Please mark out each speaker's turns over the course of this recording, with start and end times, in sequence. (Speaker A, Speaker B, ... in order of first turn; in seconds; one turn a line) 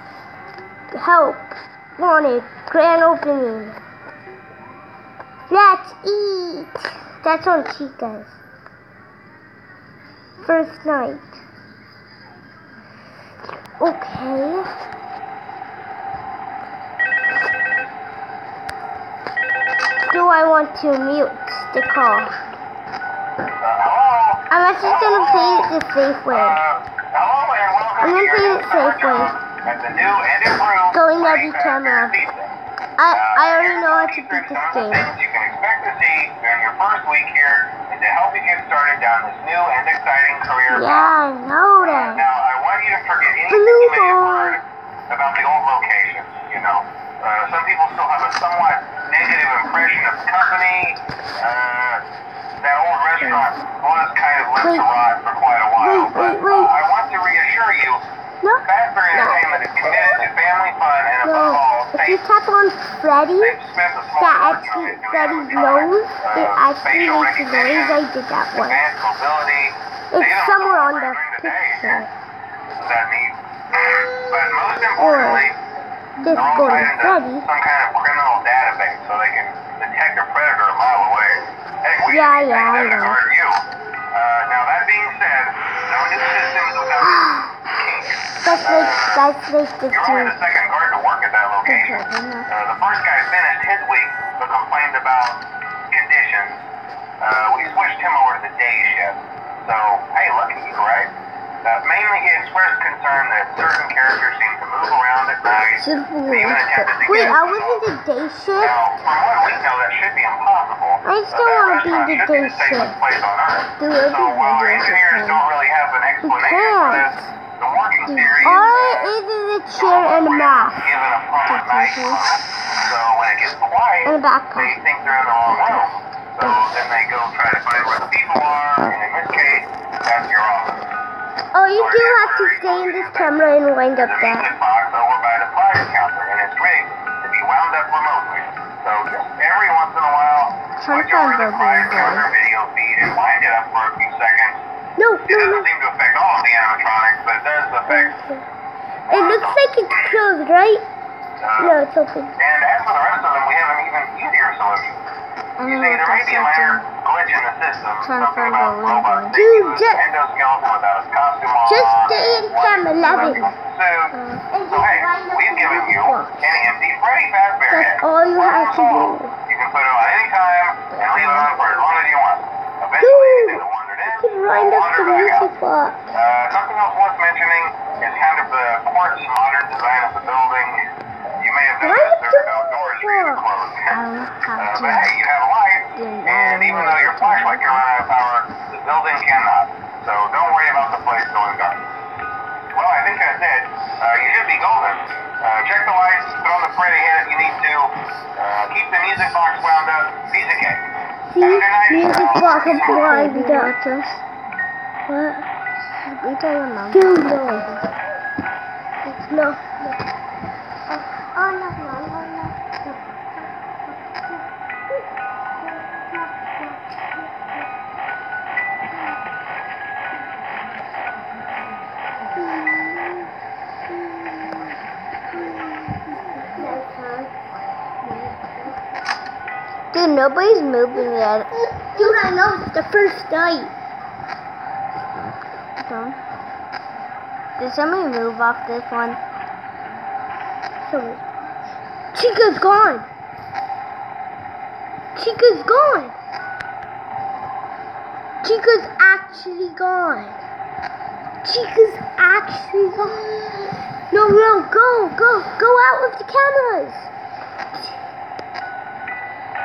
Speaker A: 0.9-3.8
Speaker A: 5.5-8.4
Speaker A: 10.4-11.4
Speaker A: 13.8-14.7
Speaker A: 20.1-22.4
Speaker B: 23.6-25.8
Speaker A: 24.5-26.6
Speaker B: 26.3-32.6
Speaker A: 28.0-29.4
Speaker A: 30.9-32.2
Speaker A: 33.0-35.1
Speaker B: 33.1-41.2
Speaker A: 40.7-42.2
Speaker B: 41.8-52.0
Speaker A: 43.5-44.6
Speaker B: 52.6-58.0
Speaker A: 54.6-54.9
Speaker A: 55.8-56.8
Speaker A: 58.4-59.6
Speaker B: 58.6-62.2
Speaker A: 61.2-63.6
Speaker B: 63.4-72.0
Speaker A: 64.2-68.8
Speaker A: 70.1-72.1
Speaker B: 72.8-75.6
Speaker A: 75.0-75.5
Speaker A: 76.2-77.5
Speaker B: 76.3-89.3
Speaker A: 82.1-83.2
Speaker A: 88.4-90.4
Speaker B: 89.9-96.7
Speaker C: 91.7-92.5
Speaker B: 97.2-101.1
Speaker B: 101.6-107.8
Speaker C: 105.8-107.3
Speaker A: 107.1-108.8
Speaker B: 108.6-119.1
Speaker A: 111.0-113.0
Speaker C: 113.8-115.4
Speaker A: 116.3-117.2
Speaker C: 118.1-118.6
Speaker A: 118.4-121.0
Speaker B: 119.8-130.9
Speaker C: 121.5-122.2
Speaker A: 124.0-124.8
Speaker A: 131.5-134.5
Speaker B: 131.7-133.4
Speaker B: 134.0-144.6
Speaker C: 140.8-142.3
Speaker A: 145.0-145.7
Speaker B: 145.3-148.2
Speaker A: 147.9-148.4
Speaker B: 149.1-149.9
Speaker A: 149.1-150.9
Speaker B: 151.4-151.8
Speaker A: 151.6-152.4
Speaker B: 152.4-155.0
Speaker C: 155.6-156.8
Speaker B: 155.6-175.5
Speaker C: 158.0-159.4
Speaker A: 159.3-160.1
Speaker A: 161.7-163.5
Speaker A: 164.4-166.4
Speaker A: 167.7-169.3
Speaker C: 171.0-171.5
Speaker A: 173.0-176.1
Speaker B: 176.1-180.8
Speaker B: 181.4-191.8
Speaker A: 181.8-183.4
Speaker C: 183.9-185.1
Speaker C: 185.9-187.8
Speaker B: 192.7-200.9
Speaker A: 201.3-203.7
Speaker B: 201.4-203.1
Speaker C: 202.7-204.2
Speaker A: 205.1-205.5
Speaker C: 206.0-207.5
Speaker A: 206.9-207.8
Speaker A: 209.1-210.0
Speaker A: 210.9-213.0
Speaker A: 214.1-214.4
Speaker A: 215.6-216.8
Speaker A: 222.3-223.3
Speaker A: 224.1-224.6
Speaker A: 225.5-227.4
Speaker A: 228.0-228.7
Speaker C: 229.9-231.5
Speaker A: 231.0-233.7
Speaker C: 235.8-236.2
Speaker C: 237.6-239.2
Speaker A: 240.8-241.2
Speaker A: 242.1-243.1
Speaker A: 245.2-246.1
Speaker A: 248.4-250.4
Speaker A: 251.4-253.3
Speaker A: 254.1-257.1